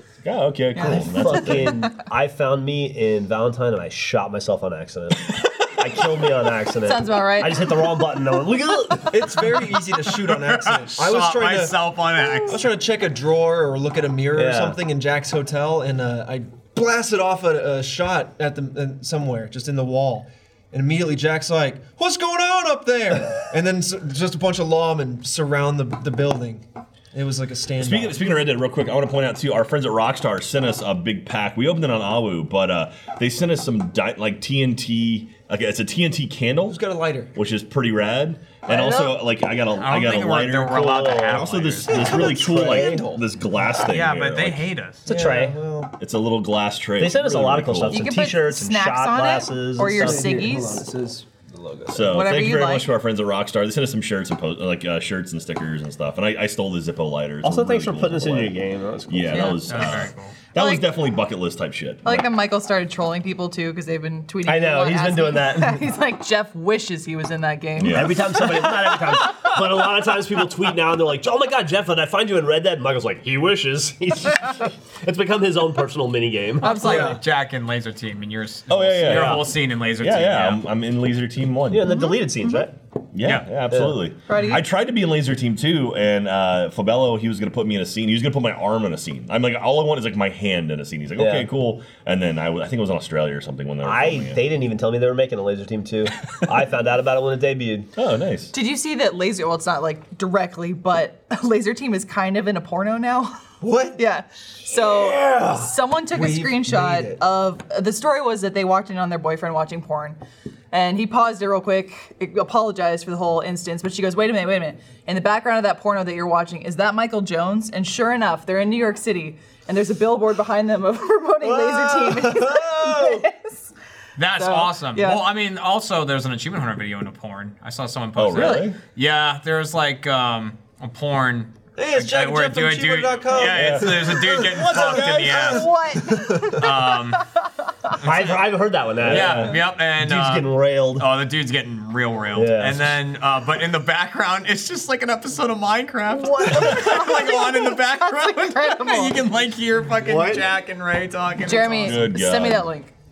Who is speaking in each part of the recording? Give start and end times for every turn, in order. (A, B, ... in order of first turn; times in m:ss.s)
0:00.2-0:01.9 A
0:00.8-0:01.8 B
0:00.8-0:09.5 C
0:06.8-0:07.8 B
0:09.1-0:11.8 D
0:10.0-0:12.6 E
0:12.4-0:28.4 D
0:14.3-0:14.8 C
0:27.8-0:36.8 A
0:36.7-0:37.3 D
0:37.3-0:44.7 A
0:38.7-0:39.1 B
0:39.8-0:42.0 E
0:40.7-0:43.1 C
0:41.9-0:43.8 D
0:43.8-0:45.1 E
0:45.0-0:45.6 C
0:45.0-0:46.0 D
0:46.0-0:48.0 A
0:47.0-0:50.5 C
0:47.9-0:50.8 B
0:49.8-0:52.2 D
0:51.9-0:58.5 A
0:52.0-0:52.9 B
0:57.4-0:59.9 C
0:59.1-1:02.3 A
0:59.3-0:59.7 B
0:59.6-1:00.4 E
1:00.5-1:00.9 B
1:02.0-1:08.6 B
1:04.4-1:05.9 C
1:07.8-1:08.5 A
1:07.9-1:17.0 C
1:16.6-1:17.2 B
1:16.6-1:20.6 E
1:16.8-1:17.2 D
1:18.7-1:21.9 A
1:19.0-1:19.5 C
1:21.7-1:22.7 C
1:21.8-1:22.6 B
1:23.1-1:34.4 A
1:23.7-1:24.0 C
1:24.3-1:24.6 B
1:31.2-1:31.5 C
1:33.8-1:37.9 C
1:38.0-1:38.5 A
1:38.5-1:43.3 B
1:43.6-1:44.0 D
1:44.0-1:50.2 B
1:44.7-1:47.2 D
1:50.7-2:03.7 B
2:01.4-2:03.3 D
2:04.2-2:15.7 E
2:04.3-2:05.2 B
2:08.2-2:08.8 A
2:11.8-2:16.7 D
2:13.4-2:15.6 A
2:15.3-2:16.7 B
2:16.4-2:17.2 E
2:18.0-2:18.5 E
2:18.0-2:21.1 C
2:19.0-2:32.0 E
2:22.3-2:23.0 C
2:26.1-2:29.2 B
2:30.1-2:30.4 D
2:31.4-2:32.9 B
2:31.8-2:32.7 A